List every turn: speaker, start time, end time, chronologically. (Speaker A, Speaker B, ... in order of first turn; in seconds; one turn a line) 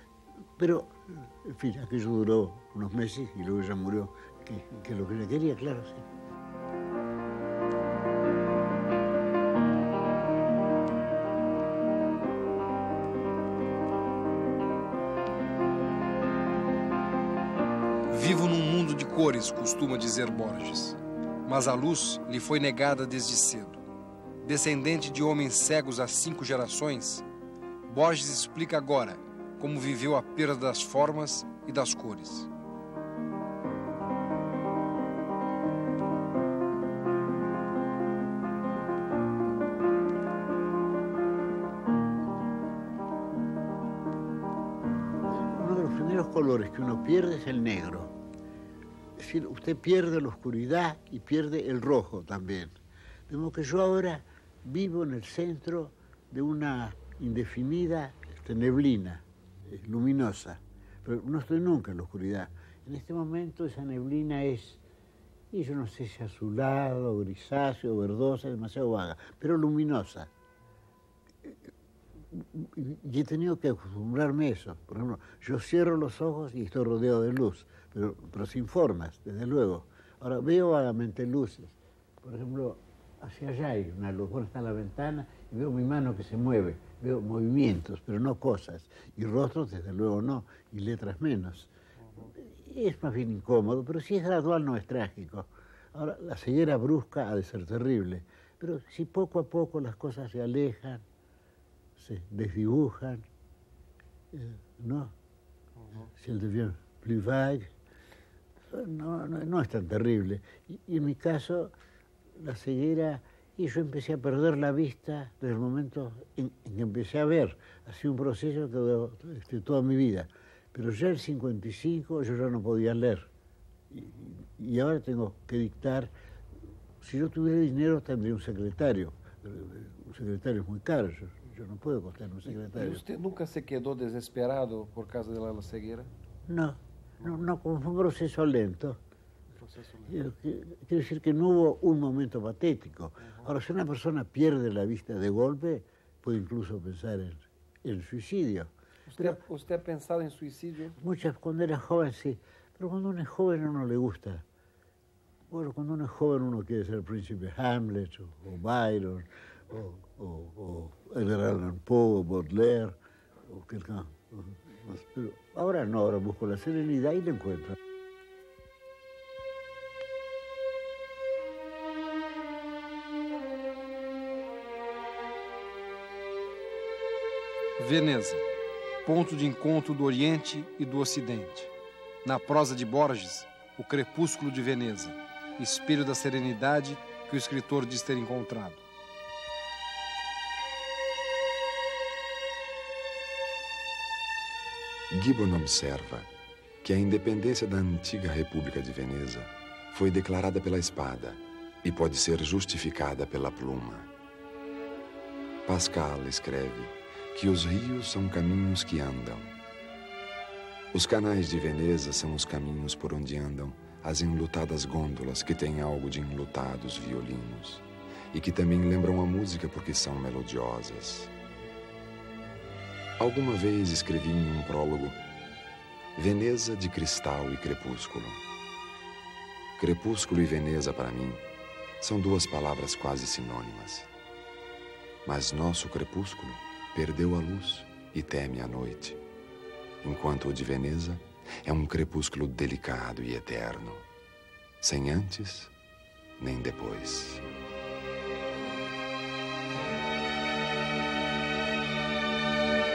Speaker A: 0.6-6.1
Speaker B: 18.1-23.8
Speaker B: 24.4-27.2
Speaker B: 27.9-32.5
Speaker A: 45.3-48.1
Speaker A: 49.2-52.8
Speaker A: 53.3-64.8
Speaker A: 65.5-70.3
Speaker A: 72.3-101.0
Speaker A: 102.0-103.3
Speaker A: 104.3-105.1
Speaker A: 105.9-107.7
Speaker A: 108.7-111.7
Speaker A: 112.4-123.3
Speaker A: 123.9-126.1
Speaker A: 127.0-133.0
Speaker C: 132.7-136.1
Speaker A: 136.5-139.0
Speaker C: 139.6-140.1
Speaker A: 140.1-149.4
Speaker C: 149.1-151.0
Speaker A: 151.0-154.4
Speaker A: 155.5-167.8
Speaker B: 177.8-178.4
Speaker B: 179.0-181.7
Speaker B: 182.2-188.8
Speaker D: 195.1-196.3
Speaker D: 196.8-204.1
Speaker D: 205.7-209.5
Speaker D: 210.9-221.3
Speaker D: 223.2-225.2
Speaker D: 226.2-228.4
Speaker D: 229.8-231.4
Speaker D: 232.0-234.1
Speaker D: 235.3-239.2
Speaker D: 240.0-244.1
Speaker D: 244.8-245.7
Speaker D: 246.4-247.5